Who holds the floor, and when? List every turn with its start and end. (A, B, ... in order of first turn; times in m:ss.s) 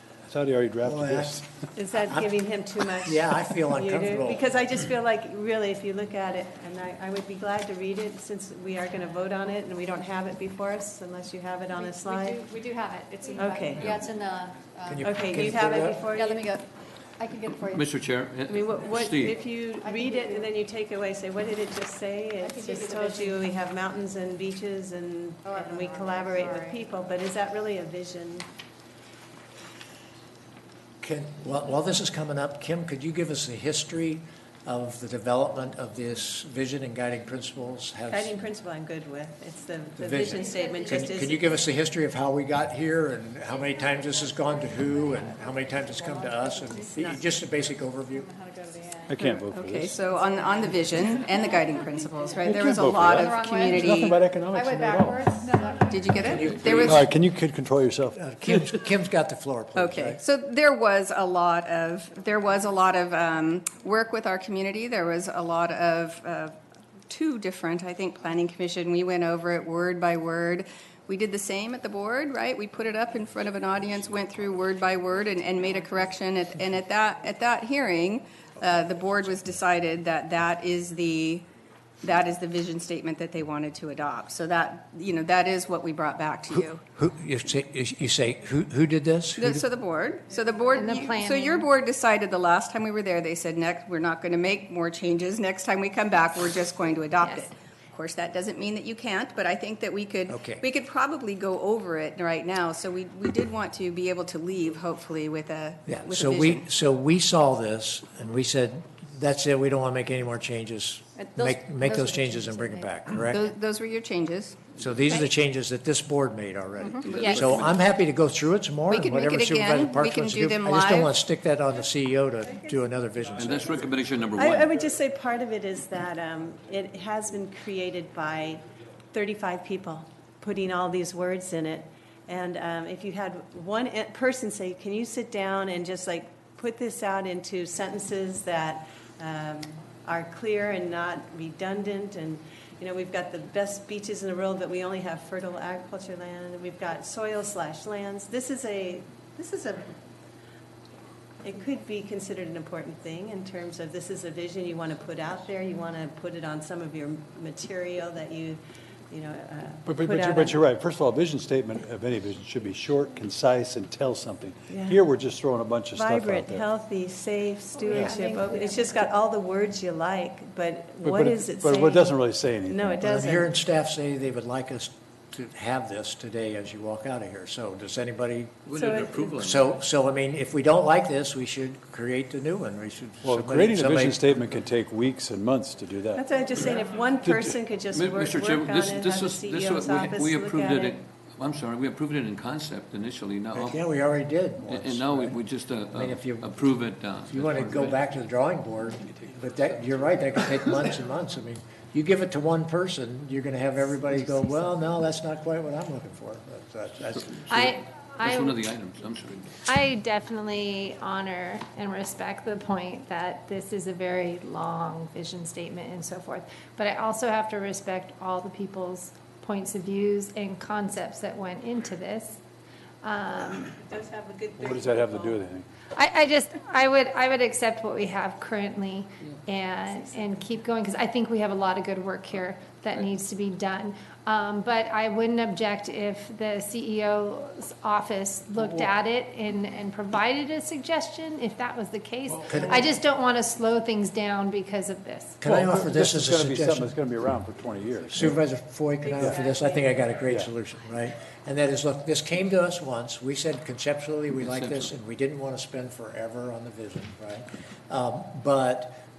0:00.3-0:01.6 A
0:00.8-0:01.4 B
0:01.7-0:12.4 C
0:03.0-0:04.6 B
0:11.7-0:15.5 D
0:13.3-0:14.0 C
0:14.9-0:16.0 B
0:15.0-0:16.5 C
0:16.0-0:16.7 D
0:17.2-0:17.9 D
0:17.7-0:19.4 E
0:18.5-0:28.5 C
0:19.7-0:20.5 D
0:22.4-0:23.4 D
0:25.4-0:26.8 D
0:31.0-0:38.3 B
0:38.1-0:41.6 C
0:40.0-0:48.3 B
0:40.4-0:41.1 D
0:44.0-0:47.2 D
0:47.0-0:47.2 C
0:48.3-0:49.3 D
0:49.1-0:50.0 A
0:49.5-0:54.2 F
0:50.2-0:50.6 D
0:52.4-0:55.4 A
0:53.2-0:53.9 D
0:54.4-0:56.5 D
0:55.9-0:57.1 F
0:56.2-0:57.1 B
0:56.7-0:58.7 A
0:58.1-1:00.2 B
0:59.7-1:06.6 F
1:07.1-1:21.4 F
1:22.0-1:26.8 F
1:26.5-1:29.6 B
1:29.4-1:46.6 F
1:30.7-1:31.7 G
1:37.2-1:37.5 G
1:40.3-1:40.6 B
1:45.9-1:53.4 B
1:51.3-1:52.2 F
1:52.3-1:52.8 D
1:53.1-1:54.6 F
1:54.8-2:04.0 B
1:56.8-1:57.5 F
1:57.0-1:57.8 E
1:57.2-1:57.4 G
1:58.9-2:01.1 F
2:03.4-2:04.8 E
2:04.4-2:29.9 C
2:31.4-2:40.6 C
2:39.8-2:46.7 A
2:44.7-2:45.0 C
2:45.9-2:53.5 C
2:47.8-2:49.0 G
2:47.9-2:48.2 B
2:51.0-2:53.2 A
2:53.0-2:58.6 B
2:58.6-2:59.8 E
2:58.7-2:59.4 C
2:59.4-3:04.4 B
3:03.2-3:06.2 A
3:06.1-3:11.0 C
3:07.2-3:07.6 A
3:07.9-3:13.8 E
3:13.5-3:27.7 B
3:14.6-3:18.2 E
3:27.1-3:29.5 E
3:27.5-3:28.6 G
3:29.7-3:42.4 G
3:43.0-3:43.7 G
3:43.6-3:45.4 C
3:44.6-3:45.7 A
3:45.9-4:05.4 G
3:58.6-3:58.9 A
4:02.4-4:02.8 B
4:05.4-4:06.9 B
4:05.4-4:08.4 A
4:08.1-4:19.0 B
4:09.0-4:10.1 C
4:10.2-4:10.5 A
4:14.3-4:14.9 E